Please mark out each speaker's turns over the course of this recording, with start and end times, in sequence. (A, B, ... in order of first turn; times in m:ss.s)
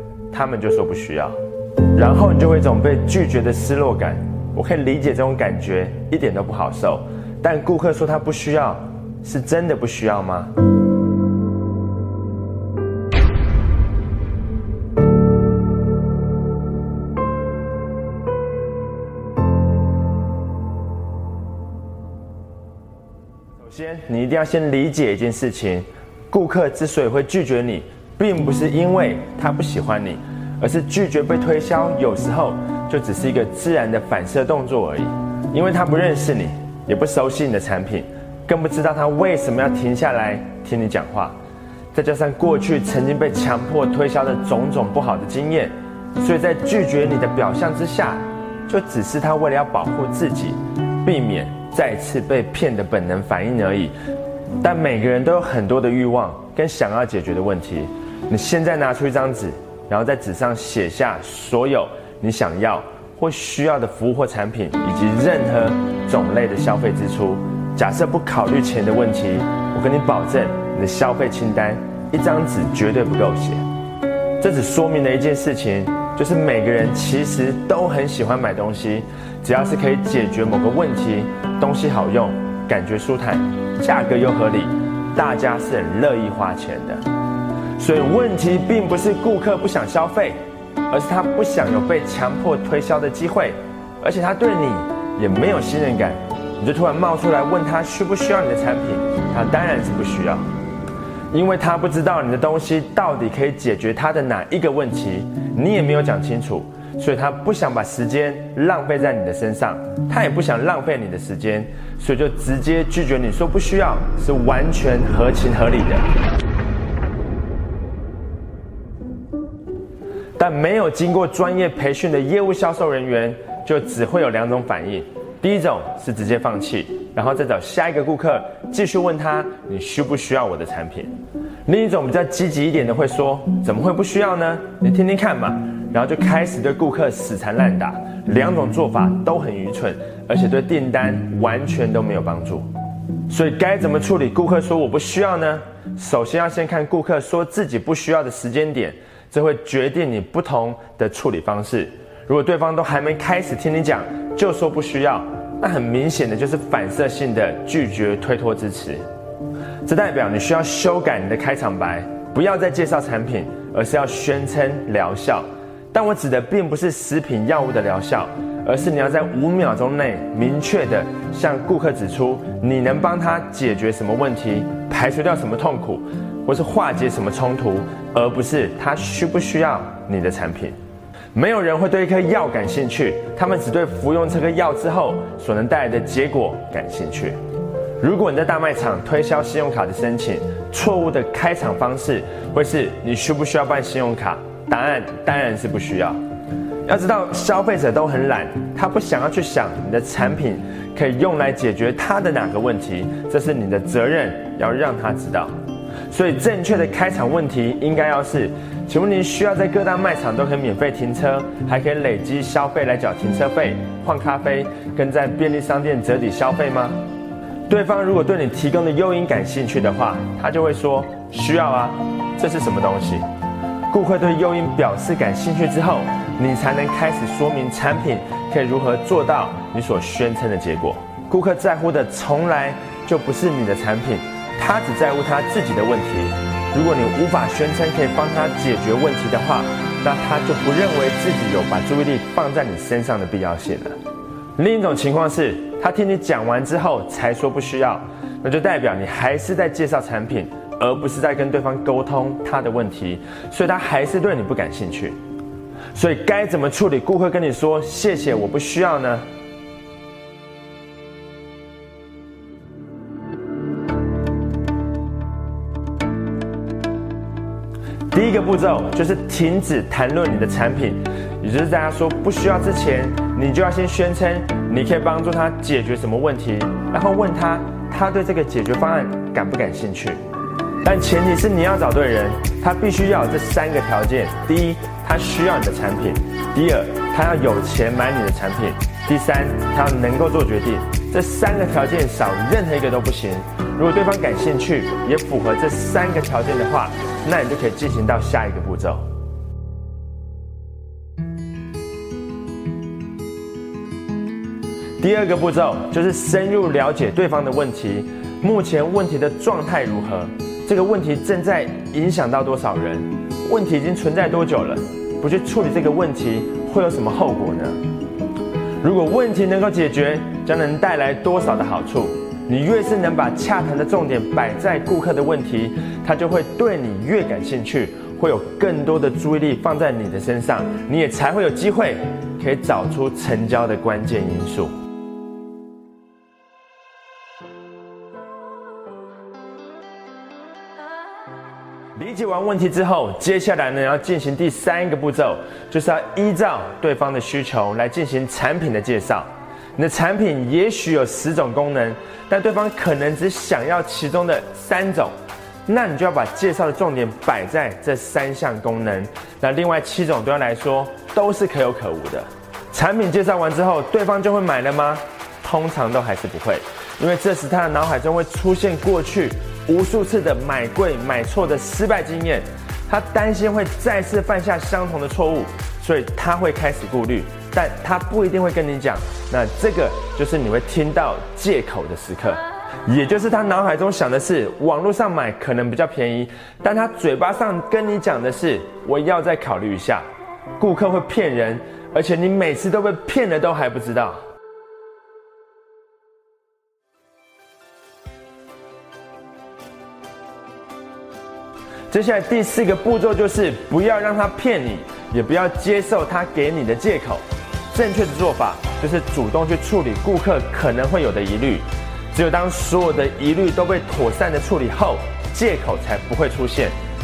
0:00.3-0:01.4 A
0:01.9-0:10.5 A
0:23.6-0:41.3 A
0:41.9-0:53.9 A
0:54.6-1:13.6 A
1:14.4-1:27.0 A
1:27.8-1:30.4 A
1:30.9-1:40.4 A
1:41.3-1:56.1 A
2:00.4-2:11.1 A
2:11.6-2:22.7 A
2:23.3-2:39.0 A
2:39.8-3:00.8 A
3:01.3-3:07.4 A
3:08.0-3:16.2 A
3:16.8-3:25.5 A
3:26.1-3:37.0 A
3:37.7-3:43.2 A
3:43.9-4:04.0 A
4:04.6-4:15.2 A
4:15.9-4:19.2 A
4:28.1-4:40.2 A
4:40.8-4:59.0 A
5:05.0-5:17.8 A
5:18.8-5:34.7 A
5:42.0-5:55.1 A
5:55.6-6:30.0 A
6:30.6-6:34.2 A
6:41.9-6:56.7 A